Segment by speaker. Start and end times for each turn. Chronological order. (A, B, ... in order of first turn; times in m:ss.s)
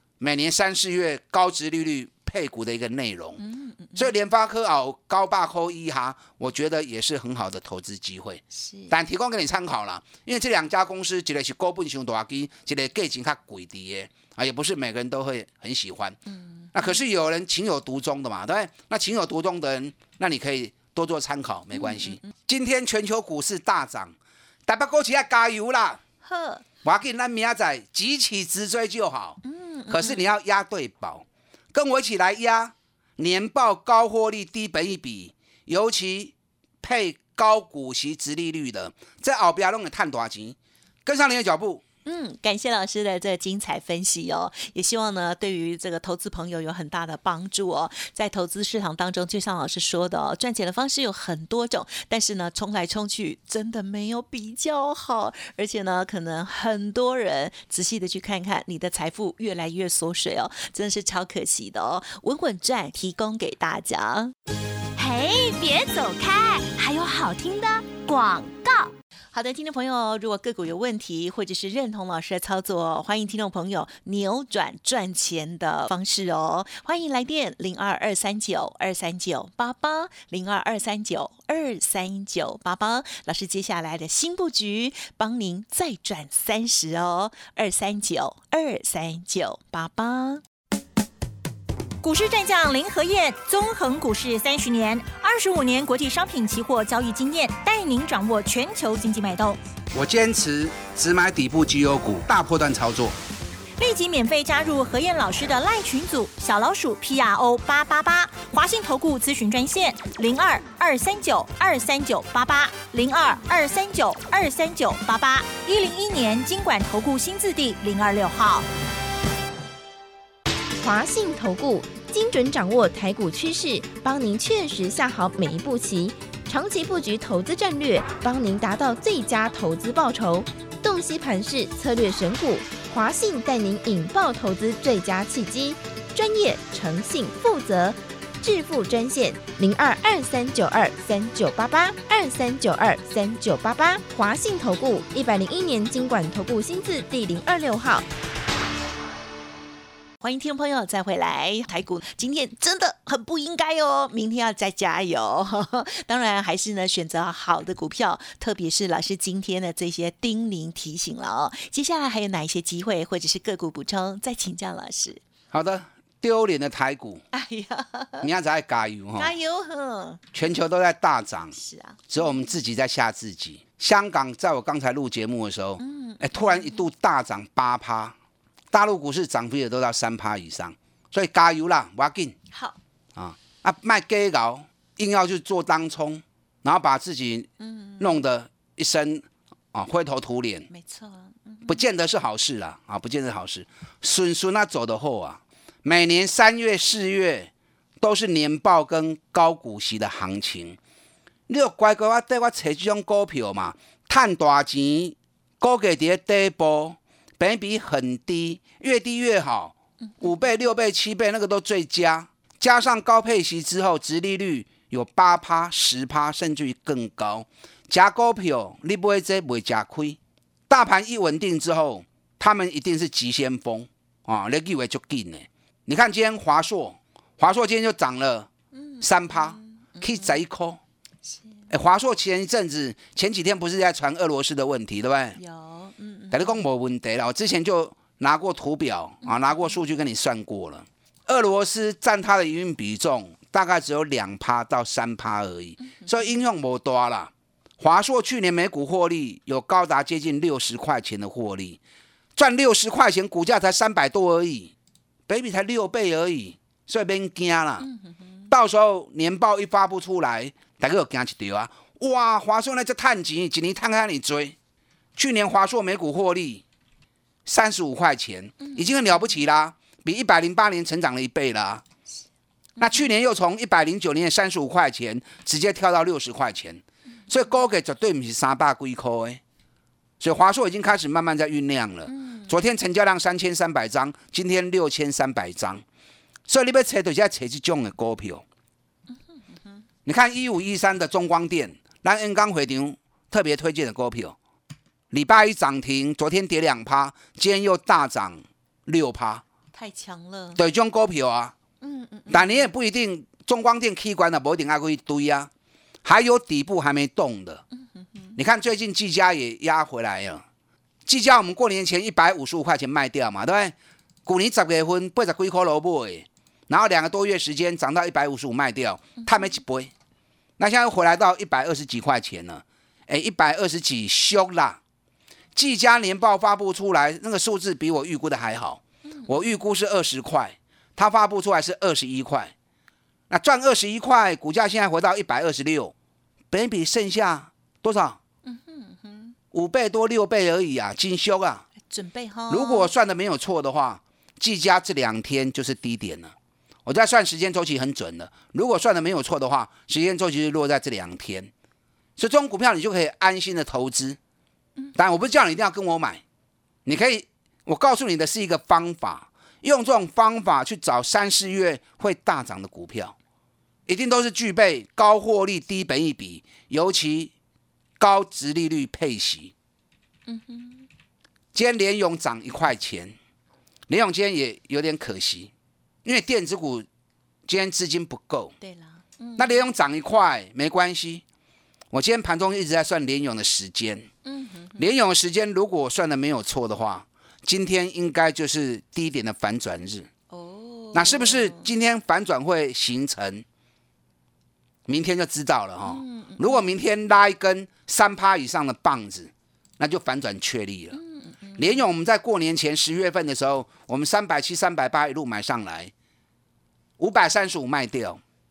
0:00.2-0:03.4 A
0:03.4-0:04.1 B
0:03.9-0:16.2 A
0:08.5-0:08.9 B
0:16.3-0:16.9 B
0:16.7-0:24.1 A
0:21.7-0:22.2 B
0:24.7-0:26.0 A
0:26.2-0:26.6 B
0:26.8-0:41.8 A
0:29.4-0:30.2 B
0:42.0-1:04.3 B
1:05.0-1:08.9 C
1:09.3-1:30.4 B
1:32.0-1:39.6 D
1:39.9-1:43.2 A
1:43.8-1:58.7 D
2:00.8-2:28.0 E
2:30.2-2:45.2 B
2:45.5-2:47.2 A
2:47.3-2:48.3 B
2:48.2-2:49.3 A
2:49.2-2:50.2 B
2:50.3-2:51.5 A
2:51.6-2:52.2 B
2:52.1-2:58.2 A
2:55.8-2:56.9 B
2:58.7-3:02.4 A
3:02.5-3:02.8 B
3:03.2-3:10.7 A
3:07.6-3:08.2 B
3:10.7-3:11.8 B
3:11.7-3:20.8 A
3:21.5-3:48.5 A
3:48.7-3:50.4 B
3:49.0-3:50.8 A
3:51.3-3:51.6 B
3:51.7-3:55.4 A
3:55.4-3:56.5 B
3:56.3-4:11.8 A
3:59.2-3:59.6 B
4:05.9-4:06.2 B
4:12.4-4:14.7 A
4:15.3-4:17.9 A
4:17.8-4:18.5 B
4:18.5-4:24.6 A
4:25.2-4:26.6 A
4:27.4-4:31.8 A
4:32.8-4:39.4 A
4:40.2-4:45.8 A
4:42.1-4:42.5 B
4:46.5-4:48.4 A
4:50.0-4:54.4 A
4:55.1-4:59.4 A
4:59.7-5:00.6 B
5:00.6-5:01.5 A
5:01.8-5:02.7 B
5:02.3-5:05.5 A
5:06.0-5:07.6 A
5:08.0-5:08.4 B
5:08.4-5:10.4 A
5:11.0-5:19.9 A
5:20.6-5:24.8 A
5:25.5-5:32.5 A
5:29.1-5:29.6 B
5:33.3-5:35.9 A
5:36.5-5:38.2 A
5:38.4-5:39.3 B
5:39.5-5:41.7 A
5:41.8-5:42.9 B
5:42.5-5:46.3 A
5:46.8-5:51.5 A
5:52.2-5:54.2 A
5:55.0-5:56.2 A
5:56.8-6:03.2 A
6:03.9-6:07.3 A
6:08.0-6:09.5 A
6:10.3-6:10.8 B
6:11.5-6:13.1 A
6:13.9-6:15.5 A
6:16.0-6:16.8 A
6:17.5-6:18.5 A
6:18.6-6:19.6 B
6:19.4-6:21.2 A
6:21.9-6:24.1 A
6:24.2-6:24.9 B
6:24.8-6:30.1 A
6:30.3-6:31.7 B
6:30.9-6:33.4 A
6:34.9-6:41.0 A
6:35.8-6:36.6 B
6:40.9-6:41.7 B
6:41.6-6:45.9 A
6:47.0-6:48.2 A